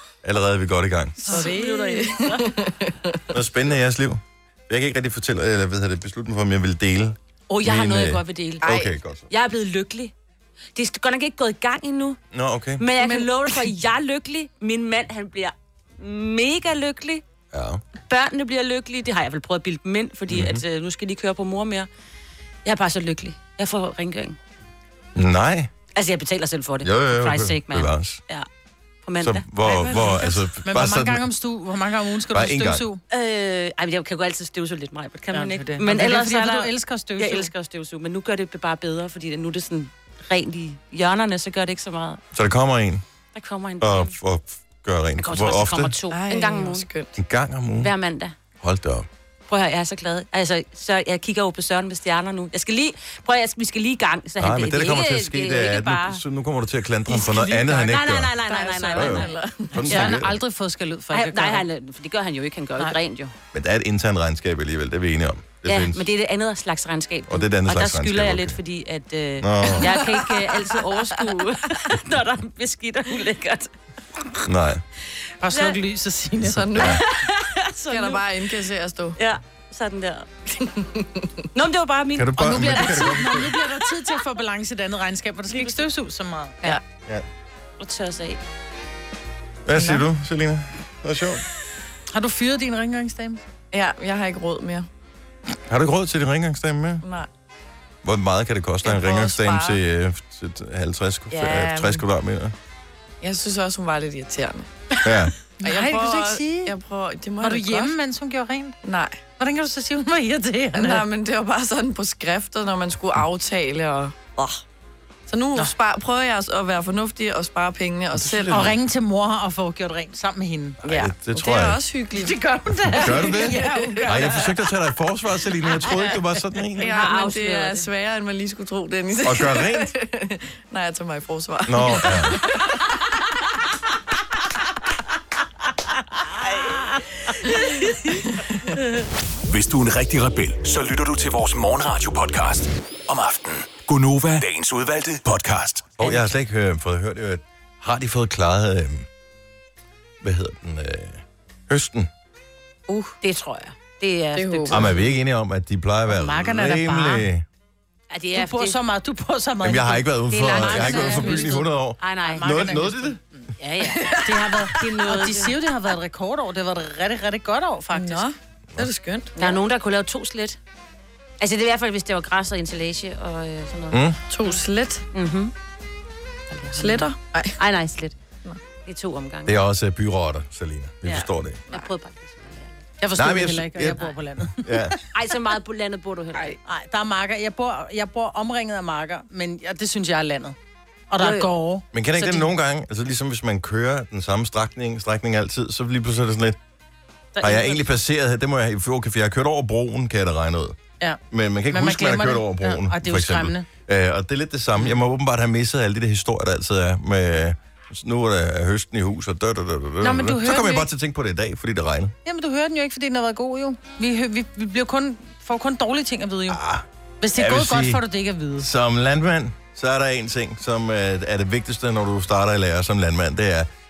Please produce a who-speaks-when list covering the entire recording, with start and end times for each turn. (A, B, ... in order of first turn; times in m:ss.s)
0:00.2-0:01.3 A
0:01.3-0:02.1 B
0:01.3-0:02.6 C
0:01.3-0:03.2 D
0:03.3-0:09.3 A
0:07.5-0:10.1 C
0:08.6-0:08.9 D
0:10.8-0:12.2 C
0:12.3-0:12.8 A
0:12.8-0:17.2 C
0:13.0-0:13.7 D
0:17.5-0:17.8 A
0:18.1-0:21.9 C
0:20.3-0:20.6 A
0:22.6-0:24.4 C
0:25.2-0:25.7 A
0:26.0-0:28.5 C
0:26.8-0:28.2 A
0:29.0-0:30.2 C
0:29.2-0:31.3 A
0:29.7-0:30.5 D
0:30.6-0:33.0 B
0:32.3-0:32.8 A
0:33.1-0:42.2 C
0:35.3-0:37.5 B
0:42.3-0:43.0 A
0:43.3-0:44.2 C
0:43.8-0:46.0 A
0:45.2-0:46.9 C
0:46.1-0:47.2 D
0:47.2-0:47.9 A
0:47.8-0:48.4 C
0:48.6-0:49.1 A
0:49.5-0:56.2 C
0:54.4-0:58.4 A
0:57.1-0:59.3 C
0:58.5-1:00.0 D
0:58.9-1:00.4 A
0:59.8-1:01.6 B
0:59.8-1:00.3 C
1:01.1-1:03.3 C
1:03.5-1:06.0 A
1:05.7-1:13.7 C
1:07.3-1:08.6 A
1:09.4-1:10.0 A
1:14.5-1:14.8 A
1:15.4-1:16.9 B
1:15.5-1:15.8 C
1:16.4-1:17.0 D
1:16.8-1:18.3 C
1:17.9-1:19.2 D
1:19.2-1:20.3 C
1:21.5-1:23.1 C
1:22.2-1:23.6 A
1:22.4-1:26.8 B
1:25.5-1:25.9 C
1:27.8-1:28.4 C
1:29.7-1:31.4 A
1:29.8-1:30.0 D
1:32.1-1:33.4 B
1:33.7-1:34.9 D
1:35.7-1:37.0 A
1:37.0-1:37.3 D
1:38.0-1:42.5 A
1:38.8-1:39.8 D
1:41.3-1:42.0 D
1:43.2-1:44.7 D
1:45.0-1:45.3 A
1:45.6-1:46.8 B
1:45.6-1:47.9 D
1:47.4-1:48.8 B
1:48.8-1:49.2 D
1:49.4-1:51.1 B
1:50.7-1:54.6 D
1:55.3-1:58.7 D
1:58.1-1:58.7 A
1:58.5-2:00.8 B
2:00.8-2:01.8 A
2:00.8-2:02.4 D
2:02.1-2:04.5 B
2:03.0-2:04.3 D
2:03.0-2:06.9 A
2:06.8-2:07.9 C
2:06.8-2:12.4 D
2:09.2-2:09.9 A
2:11.7-2:12.4 A
2:18.2-2:18.8 D
2:19.5-2:26.0 E
2:26.0-2:29.1 A
2:26.0-2:26.4 C
2:30.2-2:32.1 A
2:32.9-2:33.2 D
2:33.2-2:35.1 C
2:34.3-2:35.0 D
2:34.7-2:37.4 A
2:36.1-2:37.3 B
2:38.1-2:38.8 C
2:38.4-2:41.7 B
2:39.6-2:43.2 A
2:40.3-2:42.8 C
2:42.2-2:43.5 B
2:43.6-2:45.6 C
2:43.9-2:44.3 D
2:44.2-2:48.3 B
2:47.9-2:49.6 D
2:49.4-2:50.6 C
2:51.4-2:55.5 C
2:53.9-2:54.2 A
2:54.3-2:55.0 D
2:56.5-2:58.2 C
2:56.7-2:57.6 D
2:58.8-2:59.6 C
2:59.5-3:01.6 A
3:01.0-3:02.8 C
3:03.0-3:05.0 B
3:03.2-3:05.0 A
3:05.1-3:06.6 C
3:06.6-3:10.6 B
3:11.1-3:12.5 B
3:11.2-3:11.5 C
3:11.9-3:16.6 A
3:17.4-3:17.9 C
3:17.4-3:20.8 A
3:21.0-3:23.7 B
3:21.3-3:32.1 A
3:30.0-3:30.9 B
3:32.2-3:36.6 B
3:36.5-3:38.0 A
3:37.2-3:38.7 B
3:38.6-3:43.7 A